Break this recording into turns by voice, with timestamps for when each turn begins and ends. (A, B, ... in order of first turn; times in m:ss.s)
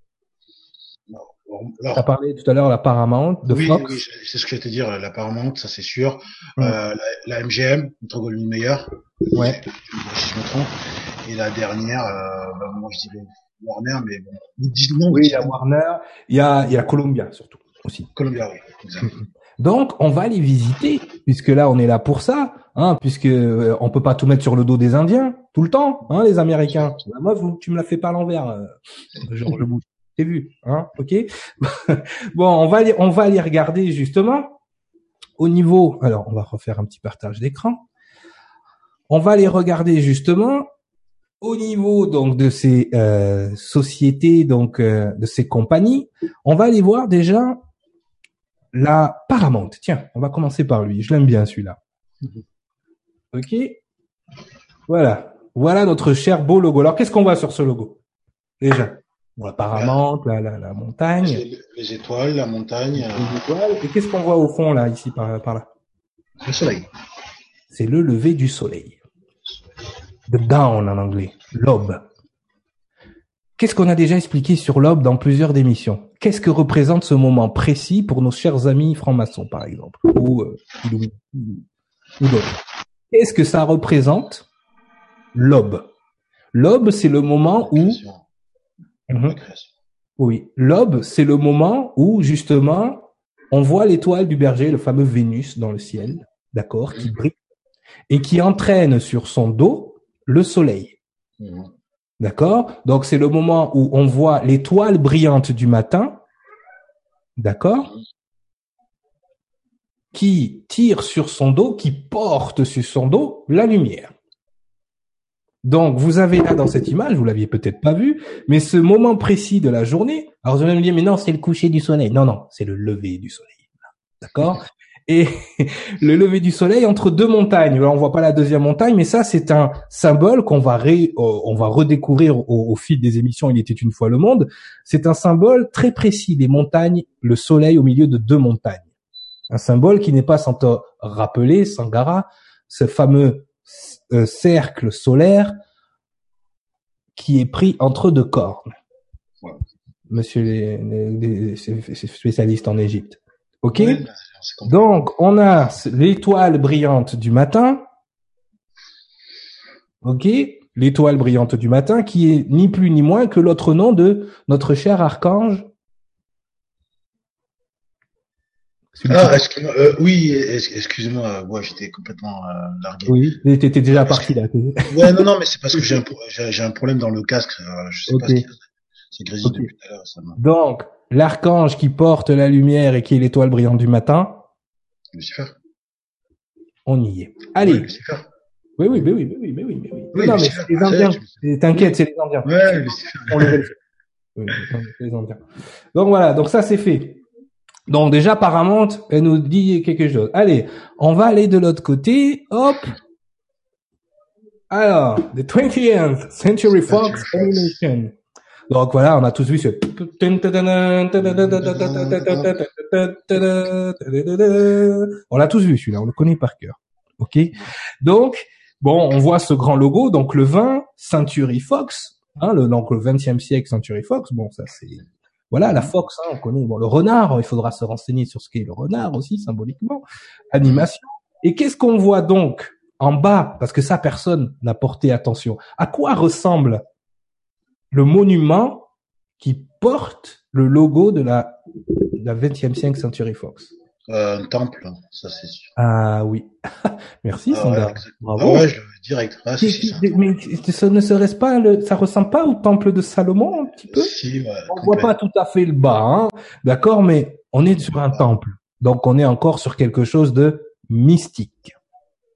0:01.1-0:02.0 A
0:01.9-0:04.0 B
0:03.5-0:15.5 A
0:09.3-0:09.6 B
0:15.1-0:18.1 B
0:18.2-0:19.1 A
0:19.0-0:34.6 B
0:35.4-0:37.9 B
0:39.1-0:40.7 B
0:41.4-0:47.6 B
0:48.7-0:51.8 B
0:53.3-0:53.8 B
0:54.9-0:58.0 B
0:58.6-1:01.4 B
0:59.7-1:00.0 A
1:01.2-1:03.5 A
1:02.9-1:05.7 B
1:06.4-1:06.9 A
1:07.7-1:09.0 B
1:10.3-1:12.0 B
1:13.6-1:21.6 B
1:22.2-1:22.6 B
1:23.1-1:24.5 B
1:25.3-1:25.9 B
1:26.5-1:28.0 B
1:27.7-1:28.2 A
1:29.1-1:29.4 B
1:29.2-1:29.7 A
1:30.2-1:37.4 B
1:38.1-1:41.0 B
1:41.4-1:41.7 A
1:42.2-1:46.2 B
1:47.4-1:47.9 B
1:50.1-1:54.1 B
1:55.6-2:03.7 B
2:04.2-2:18.9 B
2:19.5-2:25.6 B
2:27.2-2:28.7 B
2:30.1-2:34.0 B
2:33.8-2:34.9 A
2:34.7-2:37.8 B
2:40.0-2:45.7 B
2:49.0-2:49.4 B
2:49.1-2:53.2 A
2:53.1-2:55.2 B
2:53.9-2:54.3 A
2:54.9-2:58.6 A
2:58.1-2:58.4 B
2:59.1-3:00.4 A
2:59.4-2:59.7 B
3:00.4-3:04.4 B
3:05.1-3:05.6 A
3:06.9-3:07.9 B
3:07.6-3:08.3 A
3:08.8-3:13.8 B
3:10.1-3:11.3 A
3:12.4-3:13.6 A
3:14.4-3:17.2 B
3:17.9-3:23.0 B
3:24.7-3:28.2 B
3:26.9-3:27.8 A
3:28.7-3:56.8 B
3:31.2-3:32.5 A
3:50.6-3:50.9 A
3:57.9-3:58.9 B
3:59.4-4:03.7 B
4:04.1-4:05.7 A
4:05.8-4:08.7 B
4:07.5-4:10.3 A
4:09.6-4:14.1 B
4:13.9-4:15.1 A
4:14.7-4:21.8 B